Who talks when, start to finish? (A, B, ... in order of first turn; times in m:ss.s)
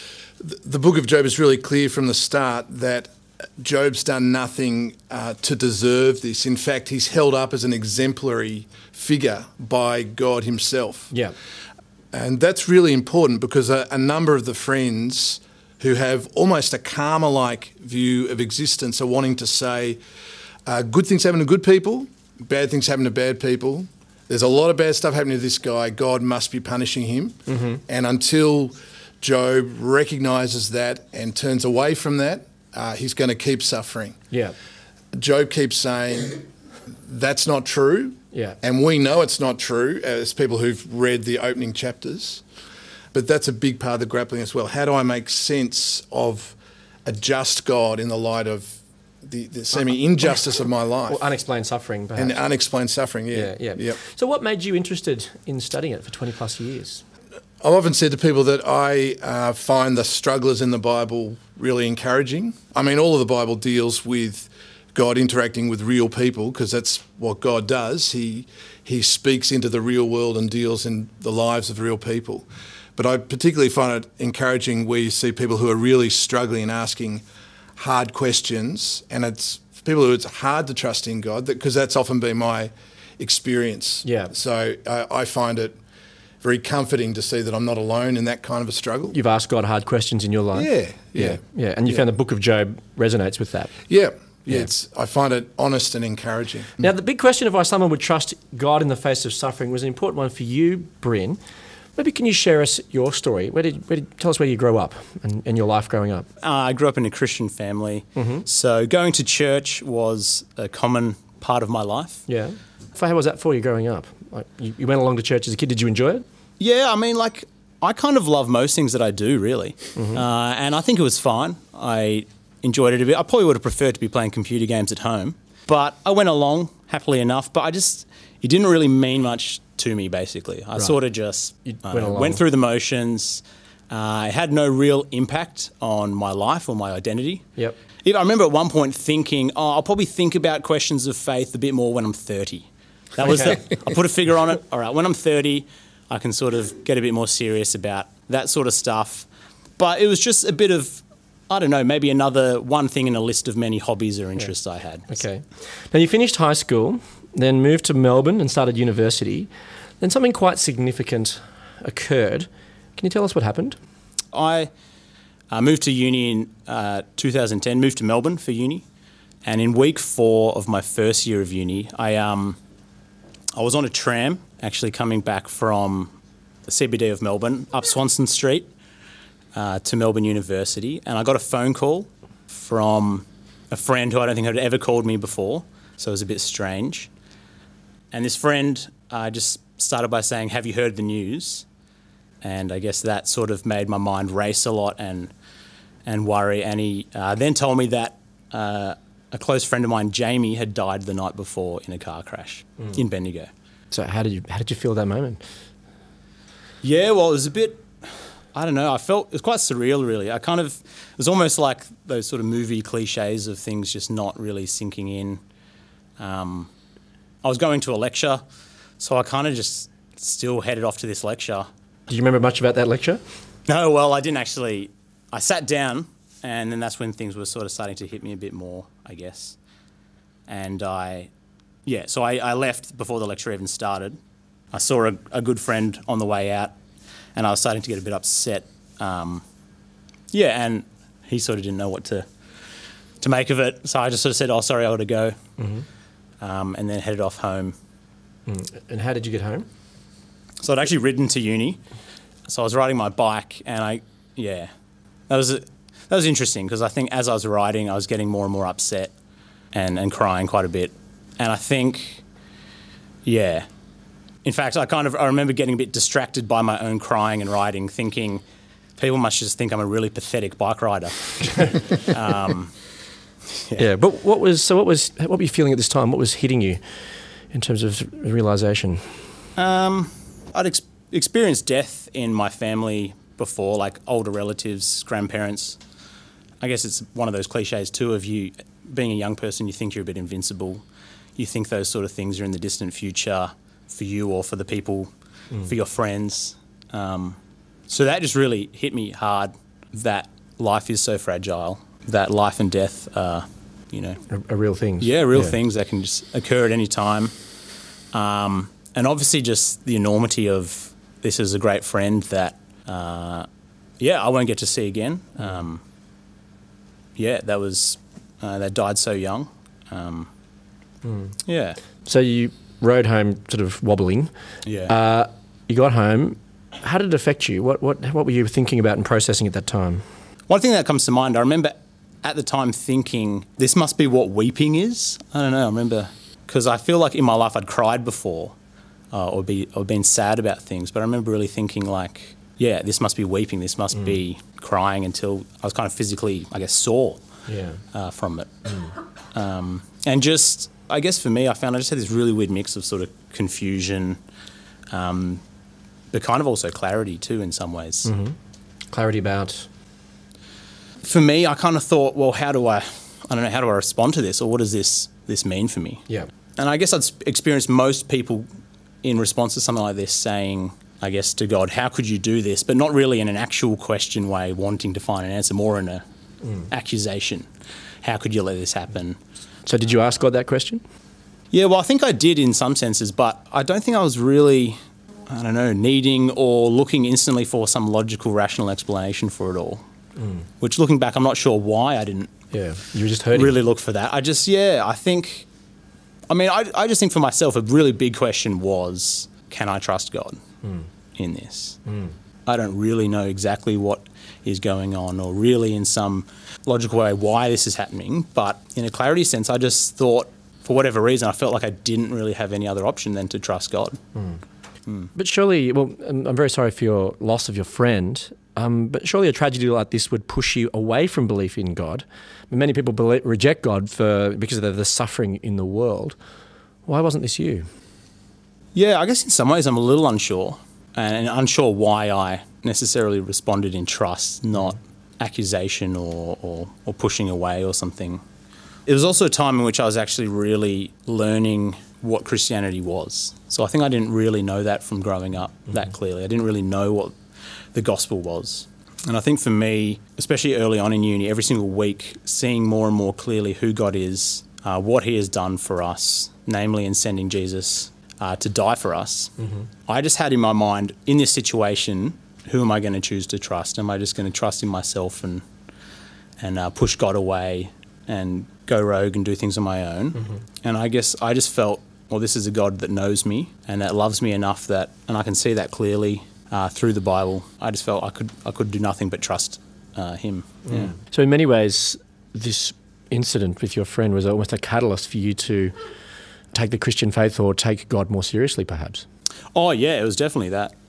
0:00.4-0:11.1 A
0:12.1-0:20.0 A
0:20.7-0:34.2 A
0:27.5-0:27.8 B
0:35.1-0:36.4 A
0:37.0-0:42.4 A
0:43.1-0:51.2 A
0:51.1-0:52.4 B
0:52.2-0:54.0 A
0:53.3-0:57.0 B
0:57.6-1:17.2 A
1:17.8-1:25.8 A
1:24.0-1:24.3 B
1:26.4-1:29.2 A
1:29.1-1:33.7 B
1:30.6-1:32.0 A
1:33.9-1:36.9 A
1:36.8-1:41.4 B
1:42.0-1:46.3 B
1:46.4-1:52.2 C
1:48.2-1:48.4 B
1:52.3-1:56.2 B
1:56.6-2:17.5 C
2:00.0-2:00.2 B
2:11.7-2:12.4 B
2:18.0-2:29.3 C
2:23.2-2:23.6 B
2:29.8-2:35.1 C
2:35.1-2:39.5 B
2:40.0-2:43.8 B
2:44.3-2:44.7 C
2:45.5-2:48.8 C
2:49.4-2:52.6 C
2:53.5-2:56.1 C
2:56.7-2:58.7 C
2:59.5-3:07.1 C
3:08.1-3:11.7 C
3:12.4-3:15.3 C
3:16.0-3:23.5 C
3:23.9-3:25.4 B
3:26.8-3:35.4 C
3:36.2-3:36.7 C
3:37.4-3:38.4 C
3:39.0-3:41.7 C
3:42.1-3:43.2 B
3:43.7-3:49.6 C
3:50.5-3:51.3 C
3:51.9-3:54.2 C
3:54.7-3:56.8 C
3:57.4-3:59.4 C
4:00.3-4:02.3 C
4:03.2-4:05.4 C
4:05.6-4:05.9 B
4:06.4-4:07.8 C
4:08.5-4:09.7 B
4:10.6-4:11.8 C
4:12.5-4:14.7 C
4:15.3-4:19.1 C
4:19.7-4:22.2 C
4:23.2-4:23.7 C
4:24.4-4:28.4 C
4:29.0-4:32.7 C
4:33.5-4:33.8 C
4:33.8-4:36.8 B
4:37.5-4:39.1 B
4:39.6-4:45.8 C
4:46.6-4:50.8 C
4:51.4-4:55.1 C
4:55.6-4:57.4 C
4:57.9-5:04.2 C
5:04.3-5:05.5 B
5:05.0-5:07.3 C
5:08.1-5:13.5 C
5:14.0-5:15.8 C
5:17.2-5:20.3 C
5:21.0-5:21.3 B
5:21.5-5:21.8 C
5:22.0-5:24.3 B
5:24.7-5:24.9 C
5:24.9-5:30.0 B
5:30.5-5:38.6 C
5:39.1-5:47.2 C
5:47.5-5:47.8 B
5:47.9-5:48.5 C
5:49.3-5:54.2 C
5:54.9-5:55.4 C
5:56.1-5:58.1 C
5:58.1-5:58.4 B
5:58.9-5:59.7 B
6:01.0-6:06.1 C
6:06.6-6:08.5 C
6:09.0-6:16.0 C
6:16.7-6:17.5 C
6:18.0-6:19.2 C
6:19.7-6:20.8 B
6:21.5-6:29.8 C
6:30.6-6:32.3 C
6:32.5-6:33.6 B
6:33.3-6:35.5 C
6:36.3-6:40.4 C
6:41.2-6:41.8 C
6:42.5-6:54.0 C
6:55.2-7:06.2 B
7:06.9-7:07.7 B
7:08.7-7:18.2 C
7:18.9-7:27.2 C
7:27.7-7:39.4 C
7:39.9-7:45.4 C
7:46.4-8:00.9 C
8:00.7-8:05.8 B
8:06.5-8:09.0 B
8:09.5-8:10.7 C